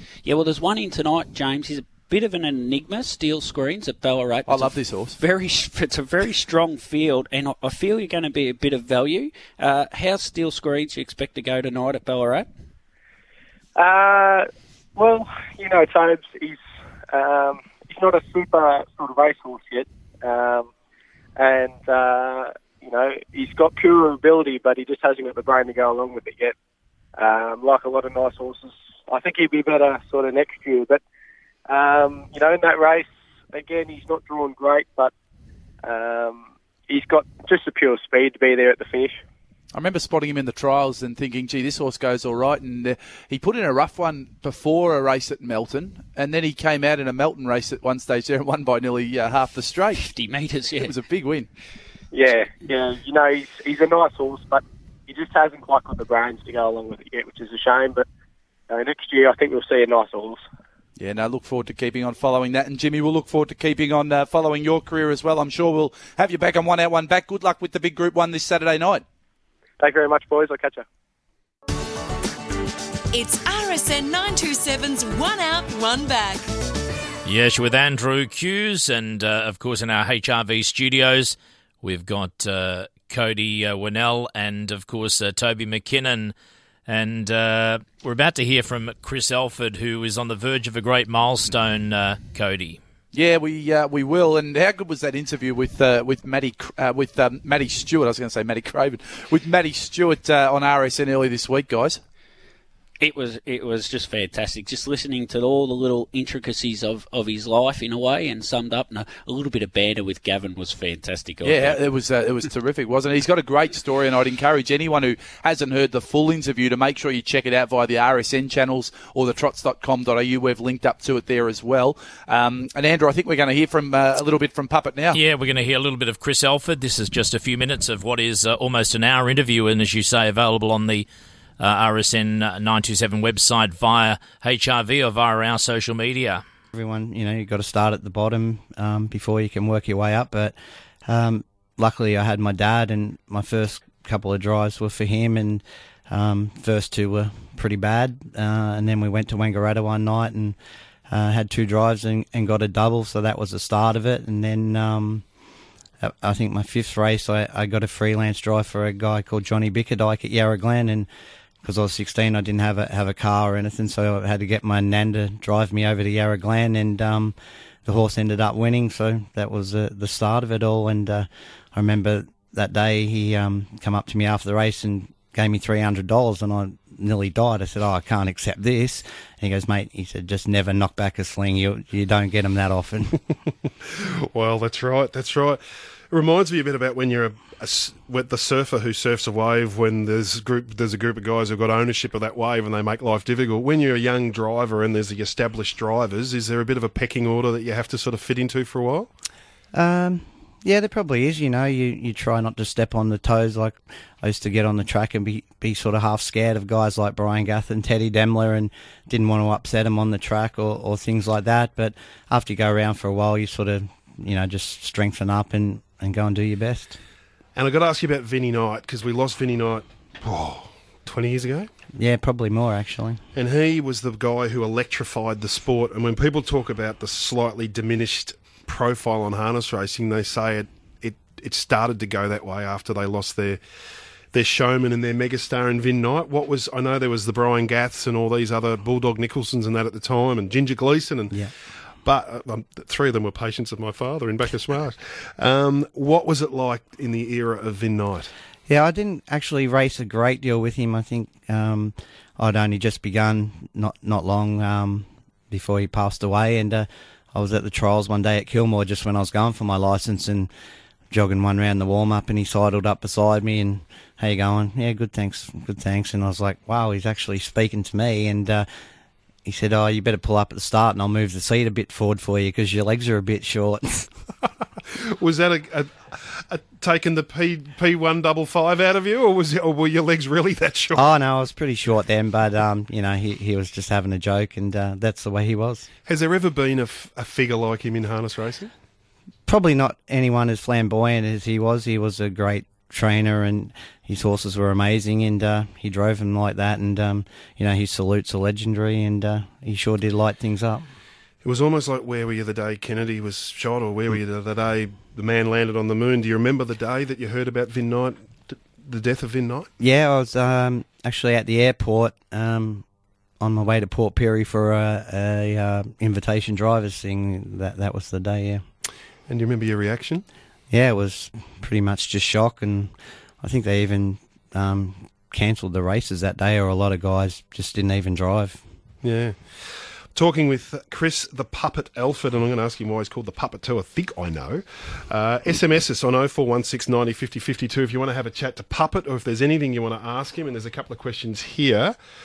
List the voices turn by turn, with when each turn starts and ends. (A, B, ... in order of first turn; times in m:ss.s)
0:00.2-0:12.5 A
0:04.5-0:05.2 B
0:13.8-0:16.6 C
0:17.1-0:20.7 C
0:21.4-0:26.6 C
0:27.2-0:31.0 C
0:31.7-0:35.1 C
0:35.8-0:39.2 C
0:39.7-0:50.1 B
0:50.0-0:50.9 A
0:50.8-0:51.5 B
0:52.1-0:58.0 C
0:58.7-1:00.4 C
1:01.0-1:09.0 B
1:09.8-1:10.8 C
1:13.1-1:16.5 D
1:17.2-1:26.3 E
1:26.9-1:32.8 E
1:33.1-1:42.0 B
1:43.0-1:51.8 A
1:51.4-2:05.2 B
2:05.1-2:11.1 E
2:11.6-2:16.4 E
2:16.7-2:30.6 F
2:31.1-2:35.3 F
2:36.0-2:41.1 F
2:41.6-3:03.2 F
3:04.0-3:19.1 G
3:19.7-3:37.0 F
3:37.6-3:41.7 G
3:42.0-3:43.2 F
3:43.4-3:53.6 G
3:54.3-4:01.5 G
4:02.0-4:08.3 G
4:08.7-4:20.5 F
4:21.1-4:28.7 F
4:29.4-4:34.1 F
4:35.1-4:41.1 G
4:41.0-4:45.9 F
4:46.1-4:48.7 G
4:49.5-5:00.8 F
5:01.4-5:09.7 G
5:09.8-5:12.8 F
5:13.4-5:18.6 F
5:19.3-5:20.2 G
5:20.7-5:28.6 F
5:29.0-5:42.0 G